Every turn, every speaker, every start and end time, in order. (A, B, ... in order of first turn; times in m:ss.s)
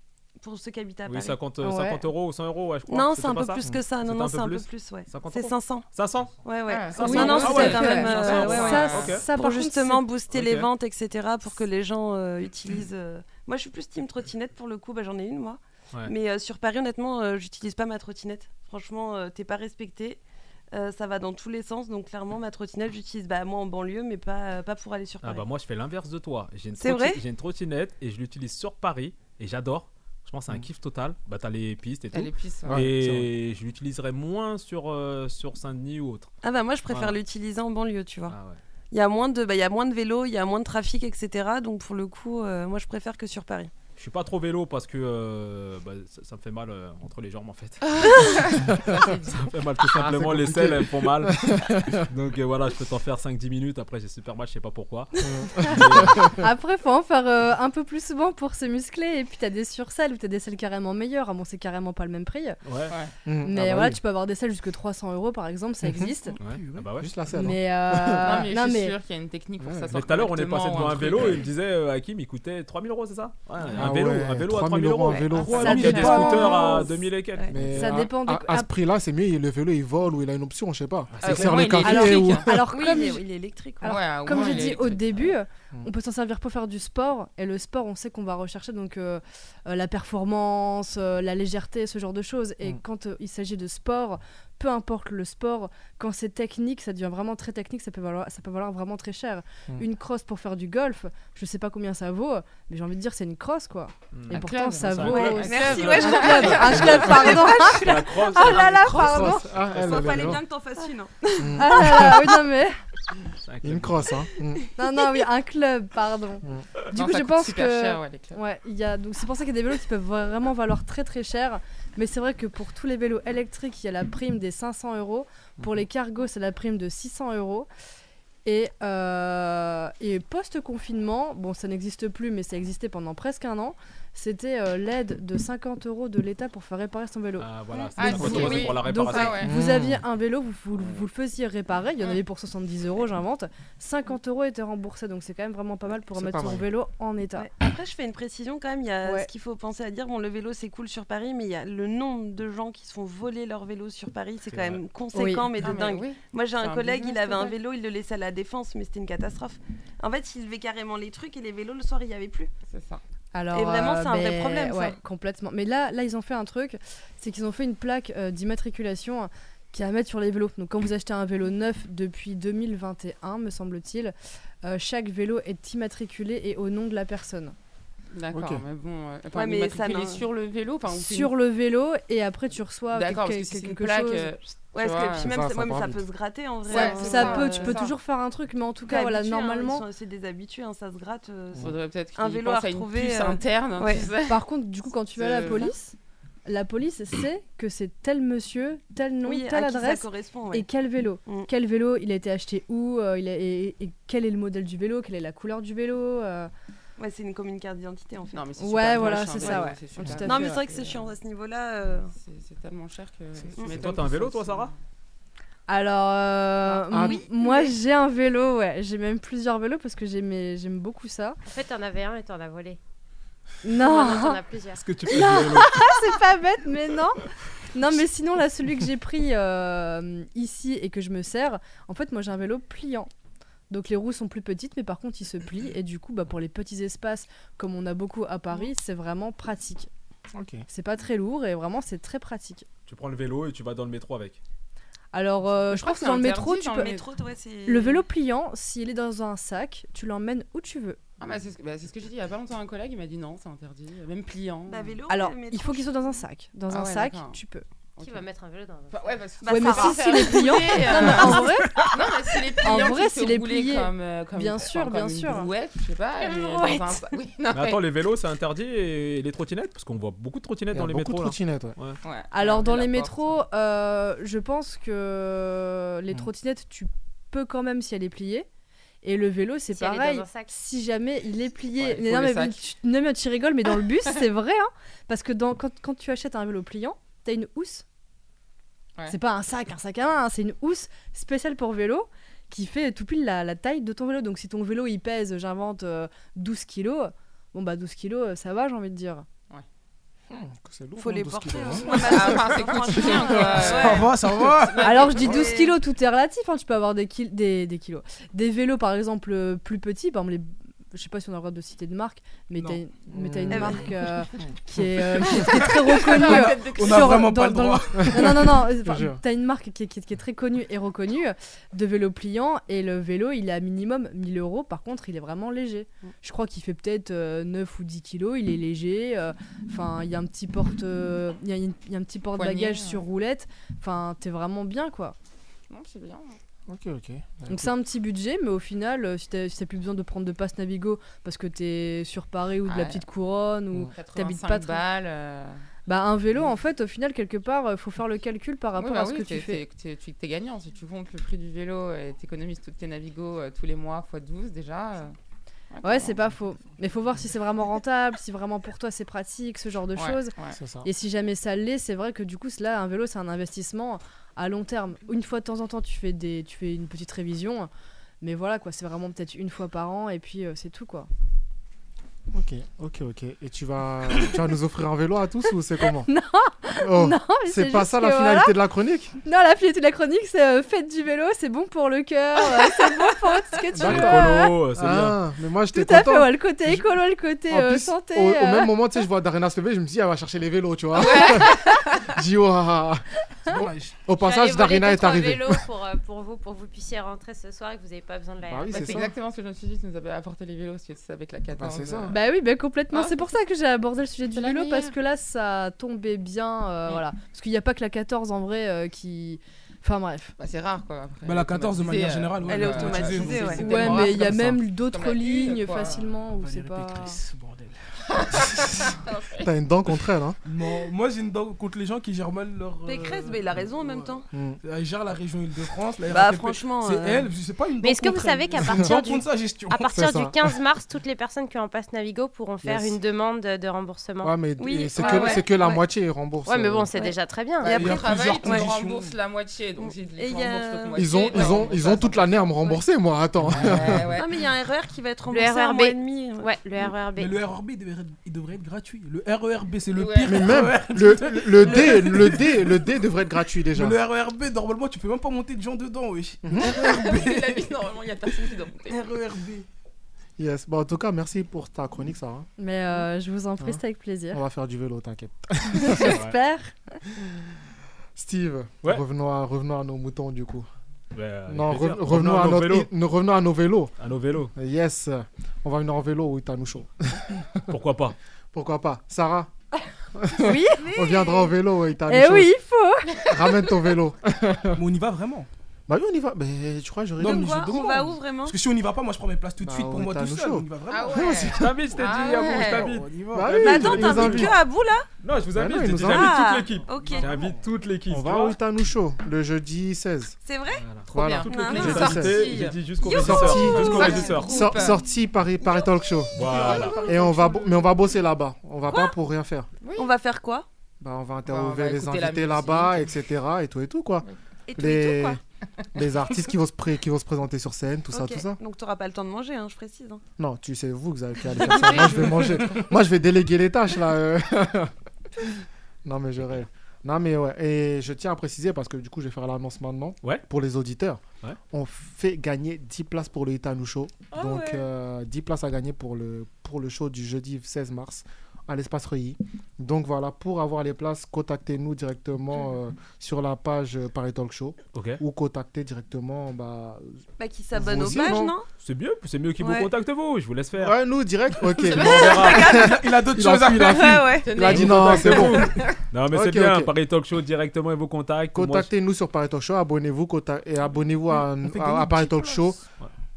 0:00.4-0:01.4 A
0:01.0-0:06.4 B
0:01.6-0:02.0 C
0:02.9-0:05.9 A
0:06.4-0:20.2 A
0:06.7-0:09.2 D
0:06.9-0:09.3 B
0:07.0-0:10.0 C
0:10.3-0:10.7 B
0:20.7-0:25.5 A
0:25.2-0:36.3 B
0:26.8-0:27.2 A
0:32.1-0:32.8 D
0:32.7-0:33.3 E
0:36.4-0:38.4 A
0:36.9-0:37.1 B
0:38.3-0:38.6 B
0:38.9-0:43.7 A
0:44.0-0:47.8 B
0:47.8-0:49.5 D
0:49.3-0:56.3 B
0:49.9-0:52.1 E
0:55.2-0:56.4 E
0:55.9-1:02.6 C
1:02.6-1:02.9 B
1:02.9-1:03.1 D
1:03.2-1:04.0 E
1:03.4-1:06.4 C
1:06.3-1:06.9 F
1:06.4-1:07.1 B
1:07.0-1:08.4 E
1:07.3-1:09.0 C
1:08.2-1:11.5 D
1:09.6-1:09.9 E
1:09.9-1:18.1 B
1:13.8-1:16.1 E
1:15.0-1:15.6 A
1:15.3-1:16.8 F
1:15.5-1:16.9 C
1:17.3-1:17.6 A
1:17.5-1:22.7 E
1:17.6-1:18.7 C
1:21.1-1:21.8 B
1:21.2-1:22.5 D
1:21.8-1:23.2 C
1:22.7-1:24.7 A
1:23.8-1:49.5 C
1:23.8-1:25.3 D
1:44.1-1:49.0 B
1:44.3-1:47.4 D
1:45.2-1:52.1 A
1:49.1-1:50.4 E
1:49.7-1:50.4 B
1:51.4-1:52.3 E
1:51.6-1:52.7 C
1:53.4-1:54.1 B
1:53.6-1:54.6 E
1:54.7-2:07.7 C
1:56.4-1:56.7 E
1:56.9-1:58.4 D
2:05.6-2:05.9 E
2:08.4-2:27.5 C
2:17.4-2:19.4 B
2:17.7-2:19.5 D
2:19.4-2:20.0 E
2:26.2-2:26.7 E
2:27.4-2:42.5 A
2:34.5-2:34.8 B
2:35.1-2:35.5 C
2:35.5-2:37.5 D
2:42.7-2:43.0 D
2:43.3-2:57.5 C
2:43.5-2:45.0 A
2:58.1-3:01.4 D
2:58.3-2:58.6 E
2:59.3-3:00.3 A
3:00.9-3:04.3 C
3:02.9-3:05.3 D
3:04.7-3:07.8 A
3:05.2-3:06.0 E
3:06.7-3:07.9 D
3:06.7-3:09.8 C
3:08.9-3:14.1 A
3:11.6-3:14.4 D
3:14.3-3:15.9 C
3:15.1-3:15.8 D
3:16.4-3:26.5 C
3:19.2-3:20.7 A
3:27.0-3:32.1 A
3:28.3-3:31.1 D
3:28.6-3:30.6 C
3:32.1-3:34.8 D
3:33.6-3:34.7 B
3:35.7-3:41.4 C
3:36.7-3:37.7 D
3:36.9-3:37.2 E
3:41.4-3:42.8 G
3:43.6-3:44.4 C
3:43.8-3:44.8 G
3:44.7-3:45.8 B
3:45.0-3:53.1 C
3:53.7-3:59.9 C
4:00.3-4:00.6 E
4:00.7-4:02.6 C
4:02.9-4:04.4 B
4:05.1-4:07.0 C
4:05.6-4:07.0 D
4:06.7-4:08.0 A
4:07.7-4:11.0 C
4:11.2-4:15.0 D
4:14.7-4:16.1 A
4:15.1-4:17.6 C
4:16.7-4:17.4 D
4:18.0-4:18.3 D
4:18.0-4:19.2 G
4:18.9-4:27.8 D
4:19.4-4:21.4 A
4:19.5-4:21.8 C
4:22.6-4:25.5 C
4:26.4-4:26.8 C
4:27.5-4:32.0 B
4:30.7-4:31.8 E
4:32.0-4:33.4 D
4:32.3-4:38.5 C
4:39.0-4:47.8 C
4:39.7-4:40.5 G
4:41.8-4:42.6 D
4:49.1-4:59.2 C
5:00.3-5:02.4 E
5:01.0-5:04.2 A
5:01.9-5:05.6 D
5:02.8-5:04.9 F
5:04.8-5:05.7 A
5:04.8-5:35.1 C
5:13.1-5:13.9 E
5:13.5-5:13.9 A
5:14.8-5:15.3 E
5:15.3-5:17.3 D
5:15.4-5:18.5 F
5:18.0-5:19.2 E
5:32.3-5:33.0 D
5:35.7-5:36.4 D
5:36.7-5:37.8 E
5:37.5-5:44.8 C
5:42.6-5:43.0 D
5:43.9-5:45.6 D
5:45.8-5:49.6 C
5:48.8-5:55.2 D
5:55.7-5:56.2 D
5:55.8-6:07.7 C
6:00.0-6:00.6 D
6:00.6-6:00.9 E
6:08.2-6:11.1 C
6:12.3-6:16.1 E
6:15.9-6:18.5 C
6:16.8-6:19.2 E
6:19.2-6:24.6 C
6:23.7-6:35.6 E
6:23.8-6:25.2 B
6:25.7-6:28.8 C
6:30.9-6:32.1 D
6:33.5-6:34.0 F
6:34.2-6:39.0 G
6:38.5-6:39.1 E
6:38.6-6:42.2 D
6:41.6-6:42.1 E
6:42.1-6:50.3 C
6:42.9-6:43.2 D
6:44.3-6:45.0 D
6:50.4-6:56.1 D
6:51.2-6:54.0 F
6:52.5-6:54.1 A
6:53.5-6:57.2 C
6:54.2-6:54.6 E
6:56.3-6:57.8 F
6:58.1-6:59.5 D
6:59.4-7:00.4 E
7:00.4-7:09.9 F
7:02.8-7:04.2 A
7:04.3-7:04.6 E
7:06.1-7:07.3 A
7:07.8-7:14.4 G
7:08.6-7:09.0 E
7:09.8-7:10.4 E
7:12.6-7:13.0 E
7:14.2-7:17.0 E
7:14.6-7:15.5 A
7:14.9-7:15.7 D
7:15.0-7:15.4 G
7:16.4-7:17.8 G
7:17.0-7:22.5 D
7:17.6-7:18.7 A
7:17.7-7:19.1 F
7:19.8-7:21.7 A
7:21.0-7:24.1 E
7:23.5-7:24.4 D
7:24.0-7:26.5 A
7:25.3-7:27.4 G
7:27.2-7:33.0 F
7:29.9-7:30.7 D
7:30.2-7:34.0 E
7:33.7-7:37.7 F
7:36.4-7:36.8 E
7:36.6-7:39.0 D
7:38.3-7:39.6 F
7:40.4-7:42.5 E
7:42.6-7:44.4 C
7:43.6-7:46.2 E
7:45.7-7:47.0 C
7:46.0-7:46.4 B
7:48.2-7:50.7 E
7:51.1-7:52.9 B
7:51.5-7:53.9 E
7:54.0-7:54.5 B
7:54.5-7:57.7 E
7:57.7-7:58.2 B
7:58.5-7:59.5 E
8:00.1-8:02.6 E
8:00.4-8:00.9 C
8:00.8-8:01.5 A
8:02.0-8:03.7 C
8:03.2-8:04.8 E
8:04.8-8:05.5 F
8:05.9-8:07.8 E
8:07.2-8:11.8 F
8:07.2-8:08.6 A
8:09.6-8:10.6 E
8:10.9-8:12.9 D
8:11.5-8:13.1 B
8:12.6-8:14.3 F
8:13.3-8:14.6 E
8:13.6-8:15.1 A
8:13.8-8:14.5 B
8:15.2-8:18.6 B
8:15.5-8:16.5 E
8:16.0-8:17.3 A
8:16.9-8:17.6 F
8:18.1-8:20.4 E
8:20.4-8:20.9 A
8:20.8-8:24.5 B
8:21.0-8:22.8 D
8:21.1-8:22.5 E
8:21.5-8:22.2 A
8:23.0-8:25.0 A
8:23.0-8:29.7 E
8:23.6-8:25.0 D
8:26.3-8:27.0 B
8:26.4-8:27.9 D
8:26.4-8:27.1 A
8:29.8-8:30.1 D
8:30.0-8:30.6 A
8:31.0-8:35.4 E
8:31.4-8:33.1 D
8:34.7-8:35.4 A
8:35.9-8:38.6 E
8:38.1-8:40.2 A
8:40.4-8:44.9 E
8:41.6-8:42.6 D
8:41.6-8:42.1 A
8:46.0-9:07.2 E
8:54.3-8:54.8 A
9:04.9-9:05.2 B
9:07.4-9:08.7 A
9:07.7-9:08.5 E
9:08.8-9:11.0 B
9:09.6-9:09.9 A
9:10.8-9:15.7 E
9:11.8-9:12.7 B
9:12.0-9:13.0 A
9:12.5-9:14.3 F
9:13.8-9:14.5 A
9:14.4-9:15.8 D
9:14.6-9:18.9 B
9:16.3-9:16.9 E
9:18.5-9:22.8 E
9:21.3-9:22.8 F